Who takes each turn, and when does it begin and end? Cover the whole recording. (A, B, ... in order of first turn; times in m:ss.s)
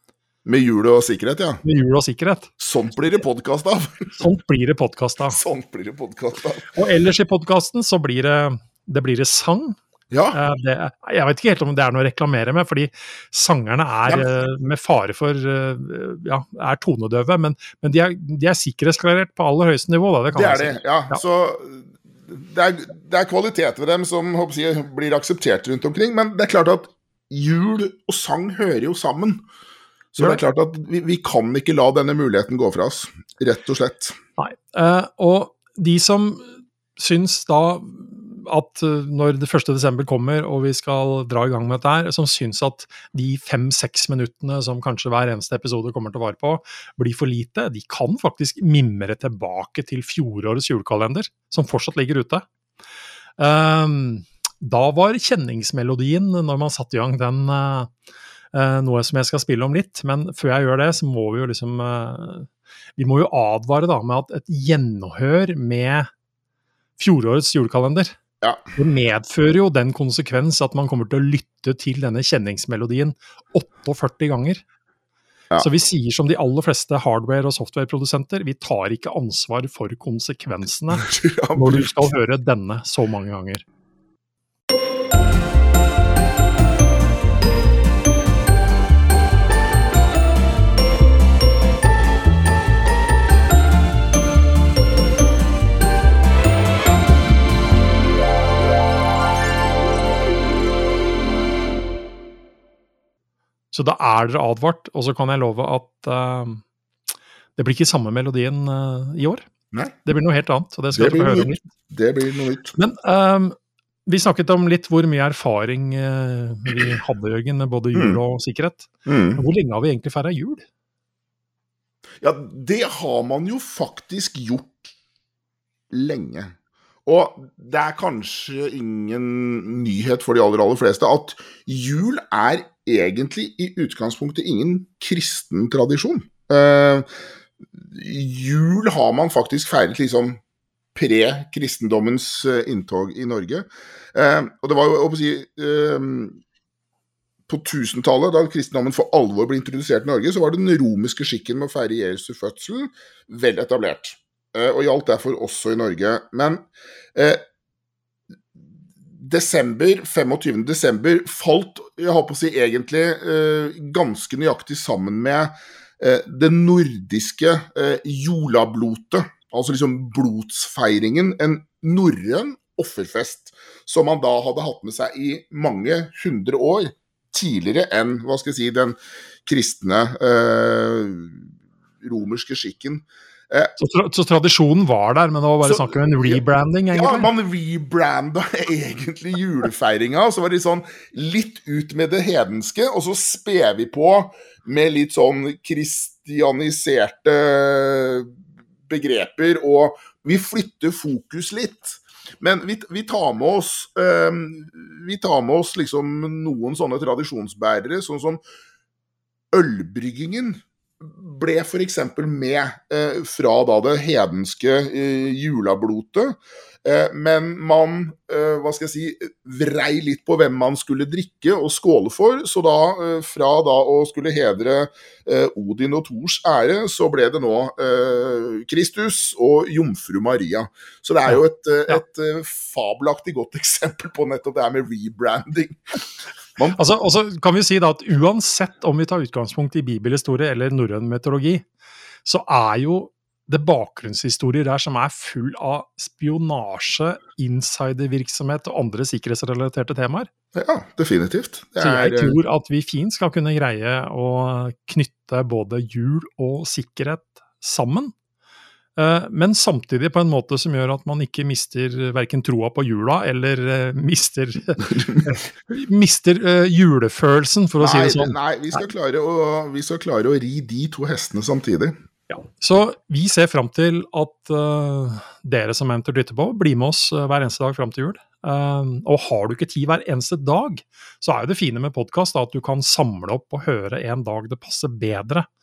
0:00.4-0:01.6 A
0:01.6-0:02.5 B
0:02.6-0:04.0 A
0:04.2-0:05.4 B
0:05.3-0:06.7 A
0:06.7-0:09.8 B
0:10.1-0:10.4 A
0:10.3-0:21.2 B
0:14.0-0:14.3 A
0:20.3-0:29.5 A
0:30.2-0:34.1 A
0:34.4-0:52.4 B
0:53.4-0:57.9 B
0:58.5-1:06.1 B
1:07.0-1:08.1 B
1:08.8-1:14.6 B
1:15.6-1:23.6 B
1:20.9-1:22.1 A
1:43.7-1:46.6 B
1:47.6-1:49.5 B
1:50.0-1:51.7 B
1:50.9-1:52.8 A
1:52.8-1:53.5 B
1:54.1-2:00.6 B
1:58.0-1:58.2 A
1:59.1-1:59.4 A
2:02.2-2:04.8 A
2:05.9-2:06.5 A
2:07.1-2:17.0 A
2:17.8-2:20.4 A
2:21.0-2:26.4 A
2:27.5-2:37.4 A
2:39.2-3:03.7 A
3:03.8-3:07.3 B
3:05.6-3:06.4 A
3:06.9-3:18.3 A
3:18.9-3:28.4 A
3:29.5-3:55.8 A
3:51.2-3:52.0 B
3:56.7-4:01.6 B
4:02.2-4:10.3 B
4:10.6-4:12.4 A
4:11.8-4:18.1 B
4:19.0-4:28.9 B
4:27.8-4:31.9 A
4:32.3-4:45.5 B